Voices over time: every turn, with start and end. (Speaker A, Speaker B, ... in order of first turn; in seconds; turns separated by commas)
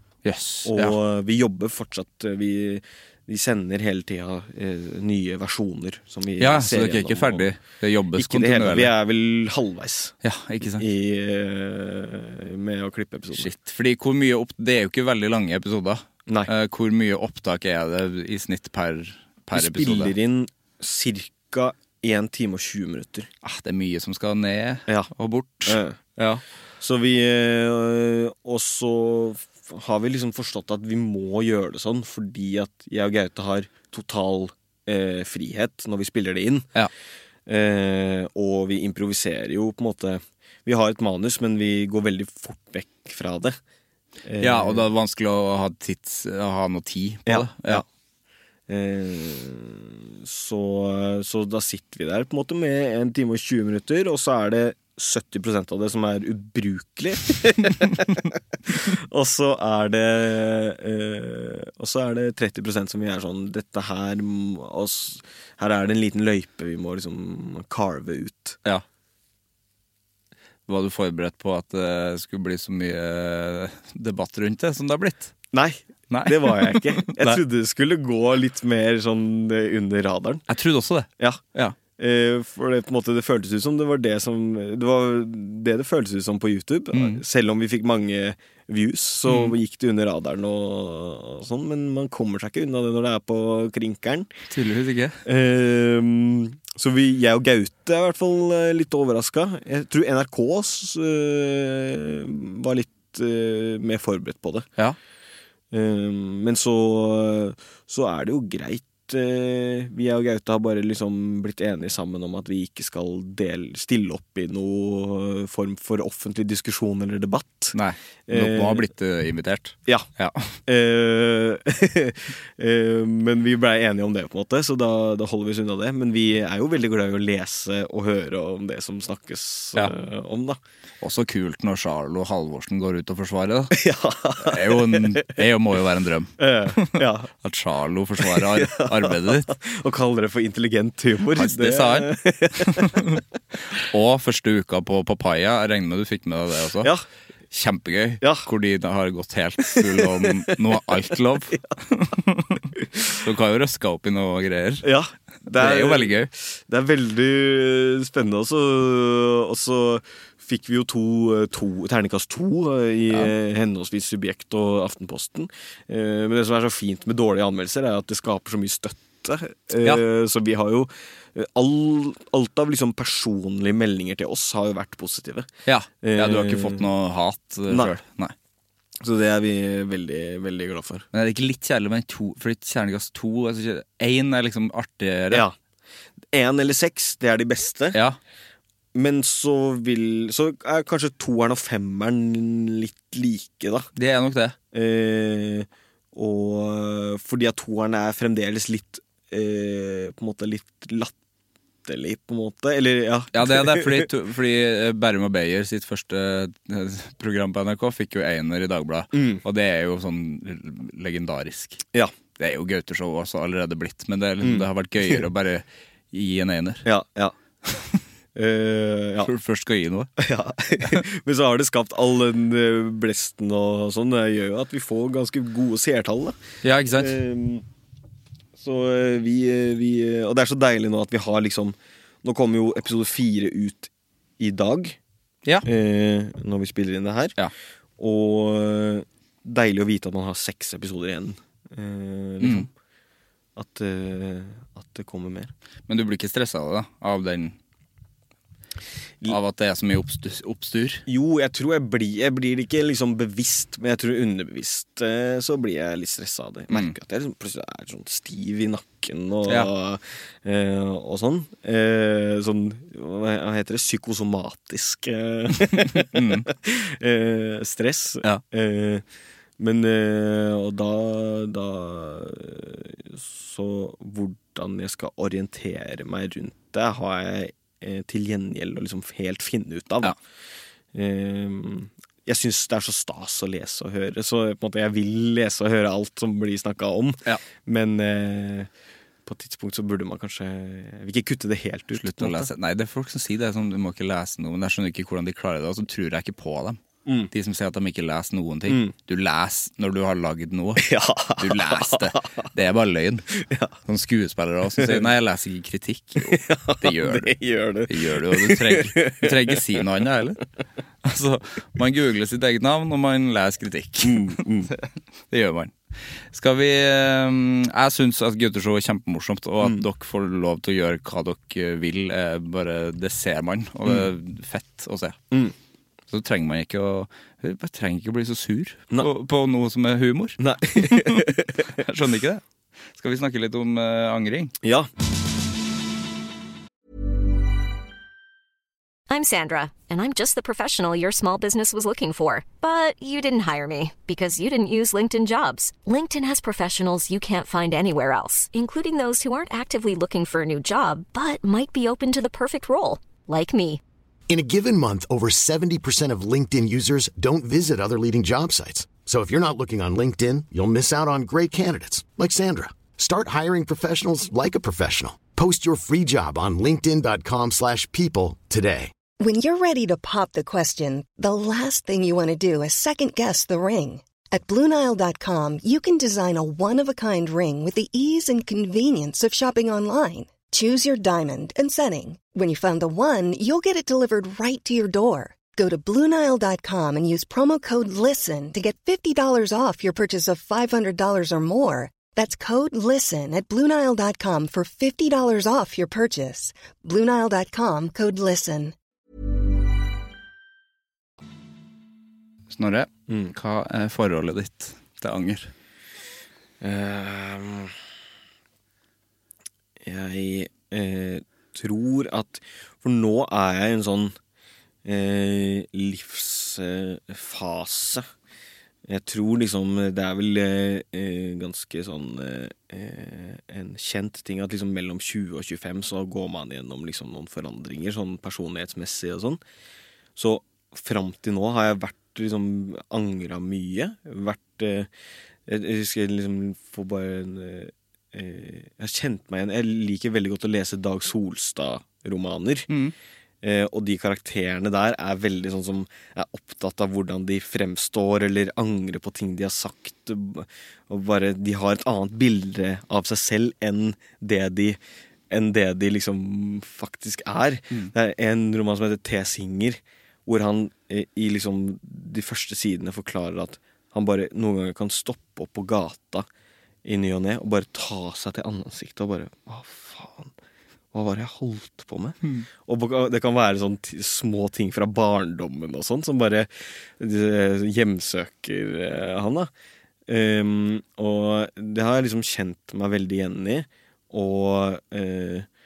Speaker A: 0.2-1.0, Speaker B: 0.7-7.5, Speaker A: 6.4-8.9, Speaker B: 8.2-13.5, Speaker A: 10.2-10.8, Speaker A: 13.4-20.1, Speaker B: 19.6-23.3, Speaker A: 23.4-26.4, Speaker B: 25.7-26.0, Speaker B: 26.8-36.8, Speaker B: 37.5-43.6, Speaker B: 44.2-44.9, Speaker A: 44.4-47.8, Speaker B: 47.3-47.9, Speaker B: 48.7-68.6, Speaker A: 70.7-75.3, Speaker B: 75.5-80.5, Speaker A: 76.1-77.4, Speaker A: 80.5-81.8, Speaker B: 82.0-94.3, Speaker A: 86.9-87.2, Speaker A: 89.3-89.5, Speaker A: 94.5-95.2, Speaker B: 95.2-104.7, Speaker B: 105.7-117.8, Speaker A: 117.7-120.6, Speaker B: 118.3-118.9, Speaker B: 120.7-130.6, Speaker A: 131.0-133.8, Speaker B: 133.7-135.4, Speaker A: 134.4-139.5, Speaker B: 136.4-137.3, Speaker B: 138.2-143.0, Speaker A: 141.3-143.2, Speaker A: 143.7-146.9, Speaker A: 147.5-154.9, Speaker B: 148.2-148.5, Speaker B: 149.7-150.8, Speaker B: 154.8-175.5, Speaker A: 155.5-156.3, Speaker A: 175.7-178.3, Speaker B: 176.0-176.9, Speaker B: 177.7-177.9, Speaker B: 179.0-181.1, Speaker A: 181.1-185.4, Speaker B: 186.3-188.0, Speaker B: 188.9-193.9, Speaker A: 194.0-194.6, Speaker B: 194.7-201.1, Speaker B: 201.8-204.1, Speaker A: 203.3-211.8, Speaker B: 209.1-209.4, Speaker A: 212.4-216.9, Speaker B: 214.4-215.2, Speaker B: 216.8-217.3, Speaker A: 217.7-218.0, Speaker B: 218.4-219.3, Speaker A: 219.2-220.1, Speaker B: 220.2-226.4, Speaker A: 226.6-227.2, Speaker B: 227.0-227.7, Speaker B: 228.6-235.0, Speaker B: 235.7-237.3, Speaker B: 238.0-242.7, Speaker A: 242.4-242.7, Speaker B: 243.6-245.5, Speaker A: 245.9-247.6, Speaker A: 249.3-251.0, Speaker B: 251.1-269.0, Speaker A: 265.6-266.5, Speaker B: 269.6-280.2, Speaker B: 280.9-288.7, Speaker B: 289.2-292.5, Speaker A: 291.9-296.8, Speaker B: 297.1-297.3, Speaker A: 297.3-303.3, Speaker B: 298.7-298.9, Speaker B: 300.8-302.4, Speaker B: 303.4-303.8, Speaker A: 303.9-307.4, Speaker B: 304.8-305.1, Speaker B: 306.2-309.6, Speaker A: 307.9-310.4, Speaker A: 311.0-325.2, Speaker B: 314.1-314.7, Speaker A: 326.1-332.4, Speaker B: 330.4-331.7, Speaker A: 333.0-334.5, Speaker B: 334.6-334.9, Speaker C: 339.1-353.8, Speaker D: 354.3-368.9, Speaker E: 369.2-398.8, Speaker A: 402.5-405.5, Speaker B: 403.1-403.3, Speaker B: 406.6-407.8, Speaker B: 409.8-414.1, Speaker B: 414.9-418.1, Speaker B: 418.9-429.4, Speaker B: 430.2-434.9, Speaker B: 435.5-442.7, Speaker B: 443.4-454.8, Speaker B: 455.3-466.3, Speaker B: 466.9-470.3, Speaker B: 470.9-479.5, Speaker B: 480.1-485.5